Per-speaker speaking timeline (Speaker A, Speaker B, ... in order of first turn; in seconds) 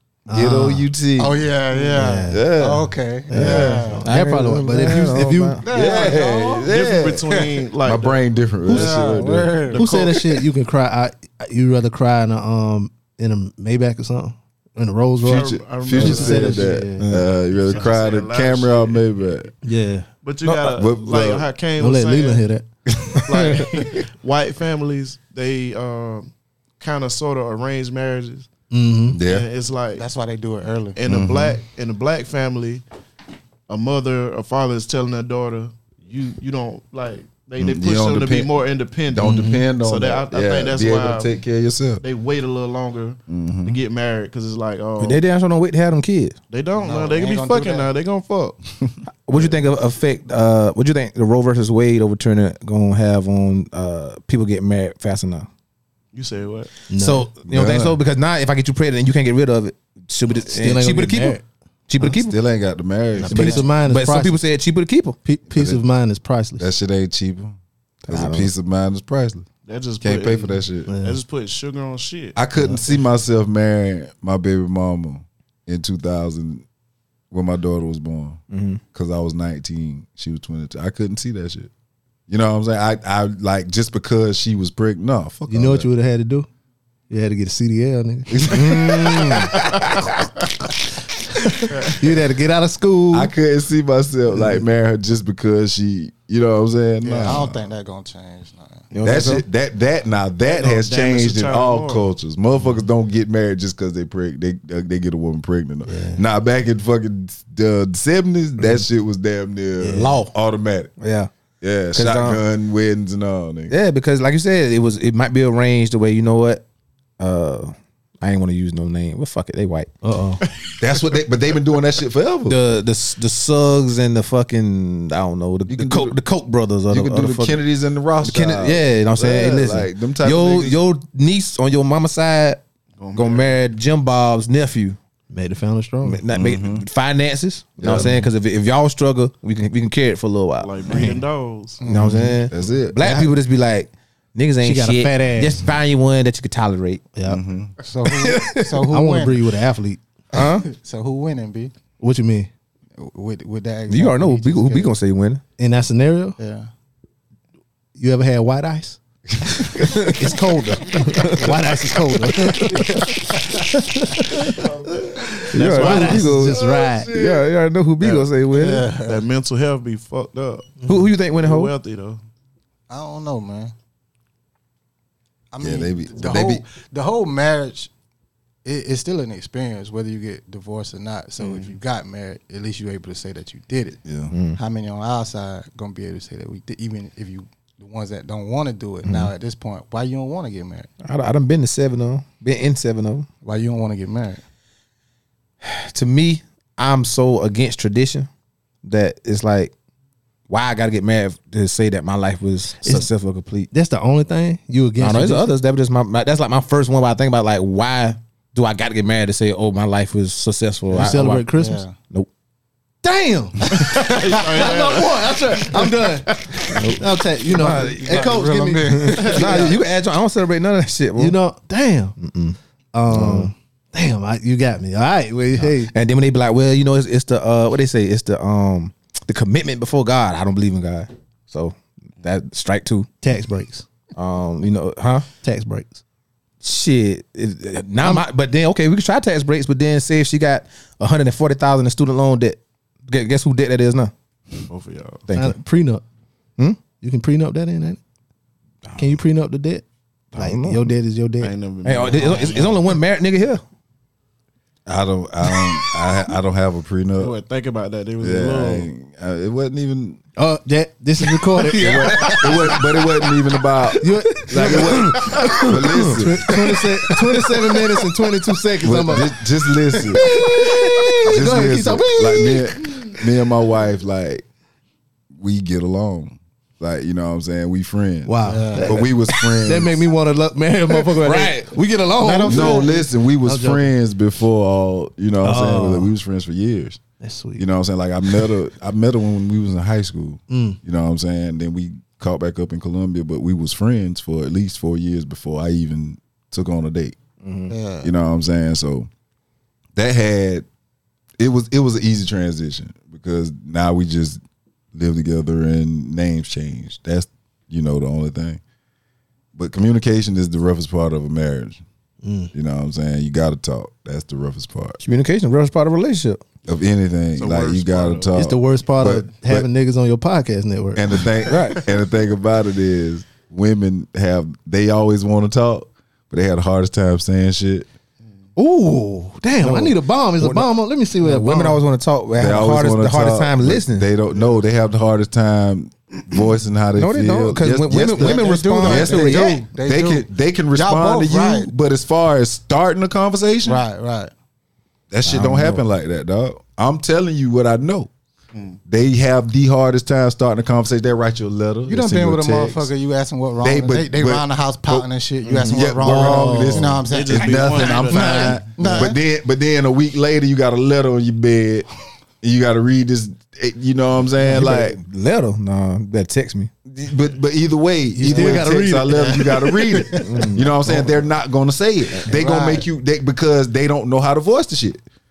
Speaker A: 0.3-0.9, 1.9-2.4, 3.3-5.6, 9.7-17.0, 19.6-20.1, 21.8-22.7, 28.7-29.2, 39.2-39.7, 56.9-57.3, 60.5-61.4, 63.1-64.4, 65.2-66.7, 70.9-71.2, 72.6-72.8, 85.5-86.5, 87.1-88.5, 91.3-93.3, 105.8-106.2, 109.8-110.1, 120.0-120.4, 135.3-136.2, 137.9-138.3, 140.9-141.2, 143.0-143.3, 144.6-145.6, 147.2-147.4, 148.9-150.0, 152.0-152.5, 155.6-156.4, 157.9-159.0, 160.1-163.0, 165.5-167.1, 202.8-203.1, 203.7-205.5, 210.9-211.8, 213.0-219.7, 221.2-222.2, 222.9-225.9, 233.2-233.9, 235.4-236.0, 245.3-246.0, 247.0-248.0, 248.9-251.5, 252.1-252.5, 260.4-262.7, 264.0-269.3, 270.1-272.9, 278.2-282.9, 283.4-283.9, 285.4-286.1, 287.2-287.6, 288.2-288.5, 290.5-290.8, 312.2-312.5, 318.3-321.3, 328.6-331.8, 356.0-357.0, 368.1-370.2
Speaker B: 0.3-1.4, 2.3-3.9, 4.8-5.1, 5.6-9.8, 15.2-19.5, 20.5-21.5, 22.9-23.2, 29.1-29.5, 31.1-31.6, 37.6-38.5, 39.1-42.0, 43.3-43.8, 57.5-58.0, 62.0-63.7, 65.5-65.8, 66.6-67.5, 68.1-69.4, 70.0-70.9, 72.3-76.6, 77.3-78.4, 78.9-81.7, 82.3-85.9, 88.3-89.5, 93.1-97.5, 99.0-110.9, 111.6-113.7, 120.8-122.6, 125.7-126.2, 126.9-130.8, 136.3-136.8, 137.8-138.1, 142.5-143.0, 147.2-147.8, 159.5-159.7, 164.4-167.5, 175.6-176.6, 184.0-184.3, 217.6-218.7, 254.8-257.3, 258.2-260.2, 261.7-266.7, 268.8-270.2, 271.2-274.4, 275.3-279.9, 282.4-287.0, 287.6-297.1, 298.0-299.1, 299.9-300.6, 301.4-304.4, 304.9-308.6, 309.5-311.8, 312.5-315.0, 316.6-319.7, 320.9-327.9, 332.4-343.8, 345.1-348.1, 348.9-352.9, 353.6-355.1, 355.7-361.9, 362.4-365.0, 366.9-375.0
Speaker C: 1.2-4.1, 5.6-6.7, 8.7-9.9, 29.9-31.0, 46.7-47.9, 97.0-98.9, 141.8-142.4, 147.8-149.4, 150.3-151.7, 153.0-154.9, 156.4-156.7, 168.5-169.2, 172.9-173.7, 175.5-177.9, 178.6-184.0, 184.5-190.9, 193.4-194.4, 211.5-212.0, 217.6-219.8, 278.5-279.0, 282.2-283.1, 297.7-298.1, 338.1-341.7, 343.6-344.3, 351.9-359.2, 368.3-369.9, 372.2-372.9
Speaker D: 4.0-5.6, 17.0-17.3, 45.0-46.4, 49.3-55.5, 57.0-62.4, 63.2-65.2, 68.1-68.5, 78.5-78.8, 88.5-90.1, 98.9-99.4, 109.9-110.3, 111.0-111.3, 111.9-112.4, 113.7-116.6, 117.2-119.9, 122.5-127.6, 128.2-132.6, 133.1-135.0, 136.0-141.2, 141.9-147.1, 148.1-148.8, 150.3-150.7, 153.9-155.4, 159.7-164.5, 165.5-168.8, 170.8-171.7, 184.3-184.6, 189.0-189.3, 191.0-193.3, 195.6-198.3, 198.8-199.7, 200.5-203.7, 205.0-211.5, 216.7-218.2, 218.9-221.4, 222.2-222.6, 223.1-223.5, 225.6-233.1, 234.1-235.3, 236.6-244.1, 245.3-245.5, 248.9-249.2, 250.3-250.9, 251.8-253.6, 265.0-267.7, 281.2-281.6, 297.4-297.7, 315.0-316.4, 321.4-321.8, 329.6-334.1, 336.9-339.6, 345.2-345.8, 355.4-355.9, 364.4-366.7, 370.2-370.8
Speaker E: 6.0-9.2, 9.7-10.1, 15.2-16.7, 17.5-19.1, 20.2-22.4, 23.2-26.3, 26.8-28.5, 29.2-30.0, 30.9-32.8, 33.7-41.4, 42.0-45.2, 46.5-48.6, 49.3-49.6, 56.1-56.7, 69.7-72.4, 100.4-102.1, 120.4-121.0, 133.0-133.6, 140.6-141.8, 165.6-166.2, 168.0-168.3, 169.0-172.2, 181.4-181.7, 213.9-216.7, 244.7-245.3, 251.4-252.9, 257.2-258.9, 262.3-262.7, 317.4-318.4, 348.5-348.8, 357.1-358.8